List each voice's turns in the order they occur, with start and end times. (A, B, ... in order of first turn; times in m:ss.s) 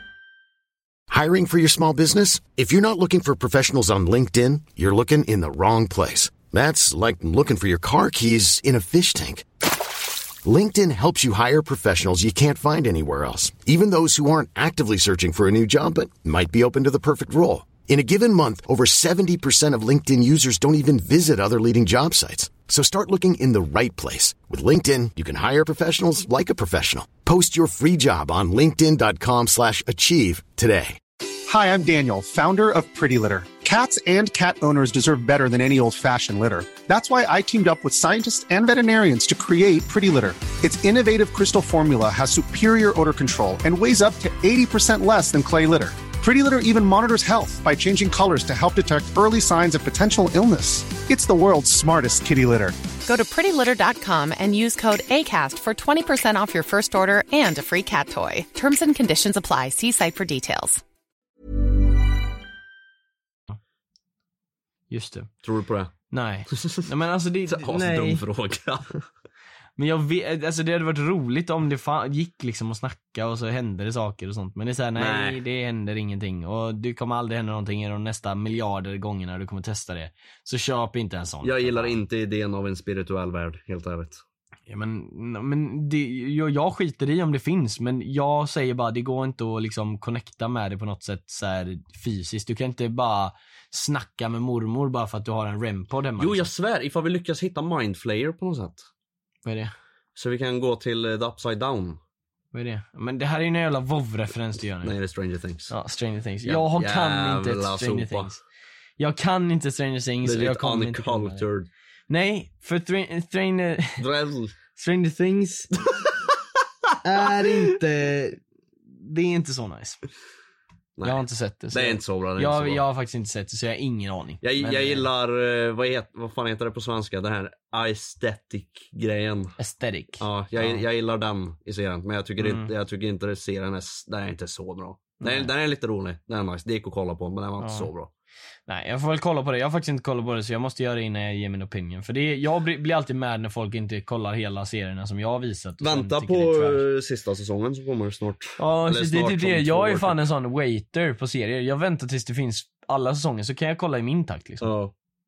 0:01.1-0:09.6 A
0:10.4-0:31.0 A
0:31.5-0:52.8 B
0:53.1-1:00.8 C
1:04.9-1:05.3 D
1:05.4-1:05.9 E
1:06.1-1:08.2 D
1:06.5-1:06.8 E
1:07.5-1:09.0 E
1:09.8-1:22.0 D
1:15.0-1:15.4 E
1:21.4-1:24.2 E
1:24.7-1:36.5 D
1:36.2-1:38.8 E
1:39.4-1:39.7 D
1:40.2-1:42.0 E
1:42.5-1:44.9 D
1:44.8-1:45.7 E
1:45.7-1:48.4 D
1:46.4-1:48.3 E
1:49.0-1:51.4 D
1:50.2-1:51.7 E
1:52.1-1:54.0 D
1:54.0-1:54.5 E
1:54.8-1:55.7 D
1:55.9-1:56.2 E
1:57.0-1:58.4 D
1:58.9-2:00.0 D
2:01.0-2:02.8 E
2:01.0-2:05.1 D
2:04.4-2:09.6 E
2:09.6-2:10.8 D
2:10.2-2:18.1 E
2:12.4-2:12.7 D
2:15.2-2:15.5 D
2:17.6-2:17.9 D
2:18.7-2:26.8 D
2:25.8-2:30.2 E
2:28.6-2:34.7 D
2:34.6-2:34.9 E